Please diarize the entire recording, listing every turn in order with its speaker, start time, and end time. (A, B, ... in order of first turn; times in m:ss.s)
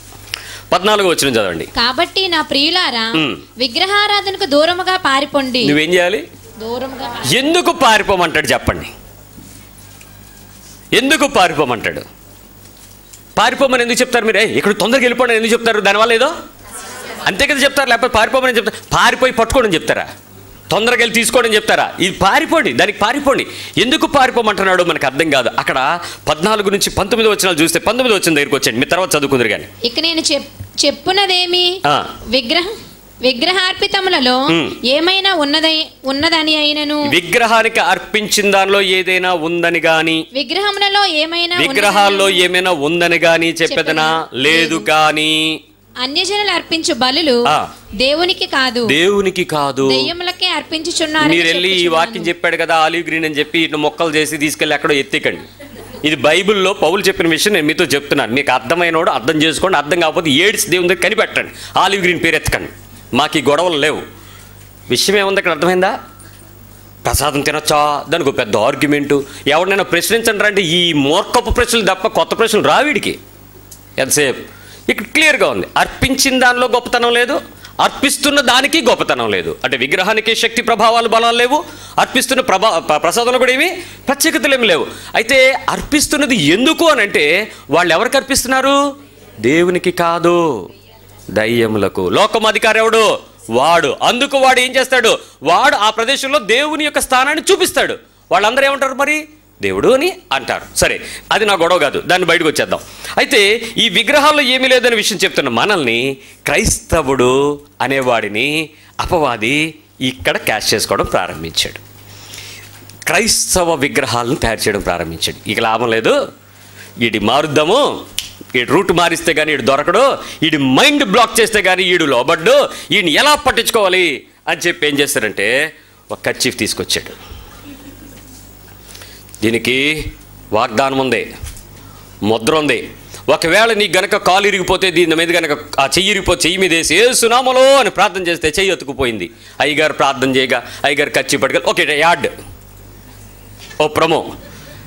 0:00.7-0:01.7 A
0:01.8-0:05.8 B
0:03.1-0:03.4 A
0:05.6-0:06.2 A
0:06.6-0:07.4 B
0:07.3-0:08.9 A
0:10.9-0:12.0 A
0:13.4-0:16.3 A
0:17.3-0:20.1 A
0:20.7-0:29.7 A
0:29.8-0:32.7 B
0:31.8-0:32.1 A
0:33.2-0:37.1 B
0:34.5-0:34.8 A
0:37.1-0:40.2 A
0:40.3-0:42.5 B
0:41.6-0:45.6 A
0:43.7-0:44.9 B
0:46.0-0:47.5 B
0:48.0-0:49.0 B
0:48.9-0:50.1 A
0:49.8-0:52.3 B
0:51.2-0:55.4 A
0:56.0-1:04.0 A
1:04.9-1:06.0 A
1:07.0-1:13.2 A
1:14.0-1:28.8 A
1:29.4-1:30.6 A
1:31.3-1:51.8 A
1:53.1-1:56.2 A
1:57.0-1:58.0 A
1:58.6-2:05.5 A
2:06.1-2:07.2 A
2:09.4-2:11.3 A
2:12.3-2:22.3 A
2:23.8-2:24.3 A